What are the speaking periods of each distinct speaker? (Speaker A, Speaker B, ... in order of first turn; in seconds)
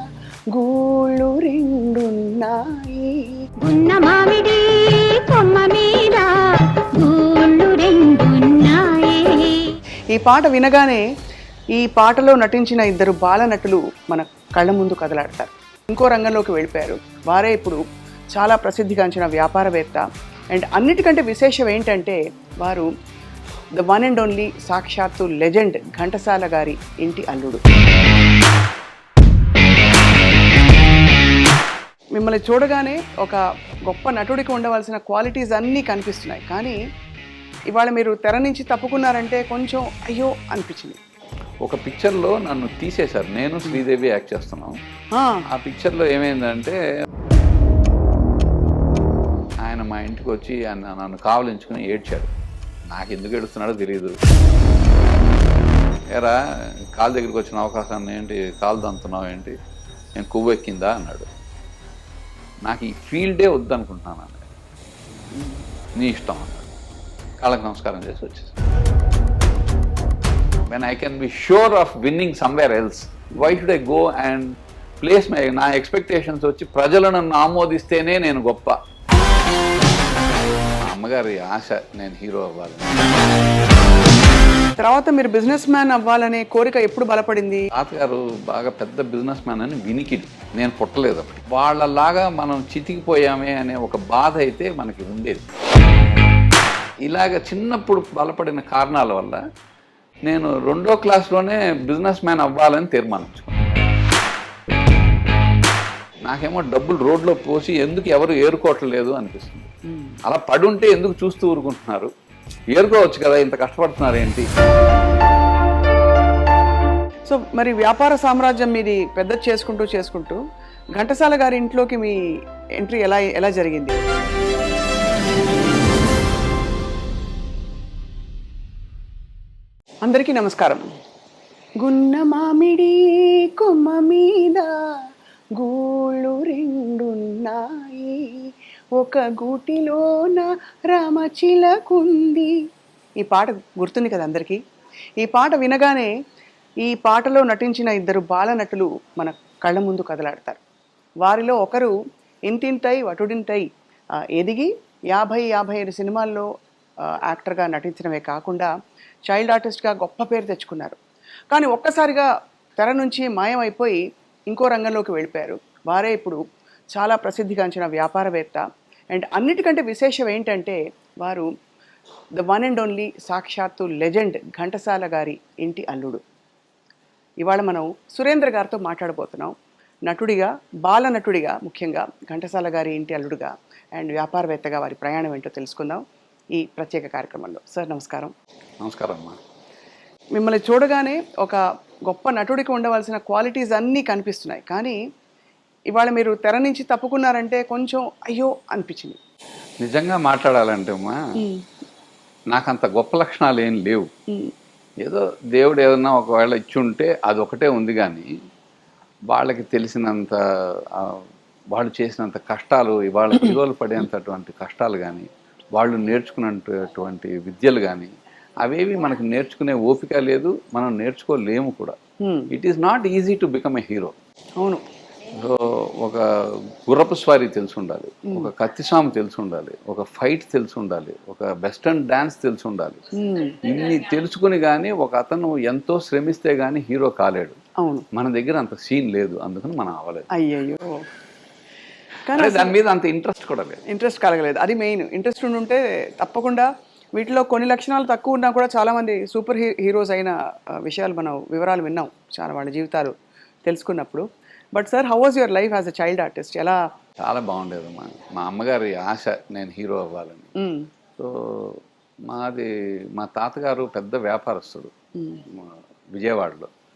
Speaker A: 0.5-3.3, 10.1-11.0, 11.8-17.8, 18.3-22.9, 23.8-27.6, 32.1-36.8, 37.7-41.0, 45.1-45.5, 84.8-87.7, 109.9-110.2, 117.3-120.4, 121.0-122.2, 122.8-124.0, 130.0-130.8, 131.8-134.7, 135.6-138.3, 138.9-142.5, 143.2-144.6, 145.2-146.1, 146.8-150.6, 151.2-151.9, 152.5-153.7, 154.3-156.5, 157.2-158.7, 159.3-161.0, 161.5-166.4, 166.9-171.5, 172.4-176.2, 177.4-179.5, 180.1-186.0, 186.5-188.3, 190.4-195.0, 195.9-199.2, 222.2-222.5, 233.2-233.6, 237.8-238.1, 240.3-241.0, 242.3-242.8, 243.9-253.1, 253.7-254.2, 254.7-256.8, 260.6-260.9, 265.2-265.4
Speaker B: 3.6-9.8
Speaker C: 41.6-44.8, 45.5-46.8, 49.6-52.3, 52.9-54.2, 56.1-59.5, 60.1-61.3, 62.6-64.4, 66.0-66.7, 67.4-68.5, 70.7-78.8, 80.8-83.1, 87.7-95.4, 97.1-99.4, 100.3-103.6, 106.3-109.7, 110.2-112.1, 112.7-114.5, 188.8-189.4, 199.8-201.2, 202.5-204.1, 205.0-208.3, 209.3-221.9, 222.5-224.1, 225.3-233.0, 233.6-237.6, 238.1-240.3, 242.3-243.8, 257.2-260.5, 261.2-264.9, 265.5-266.7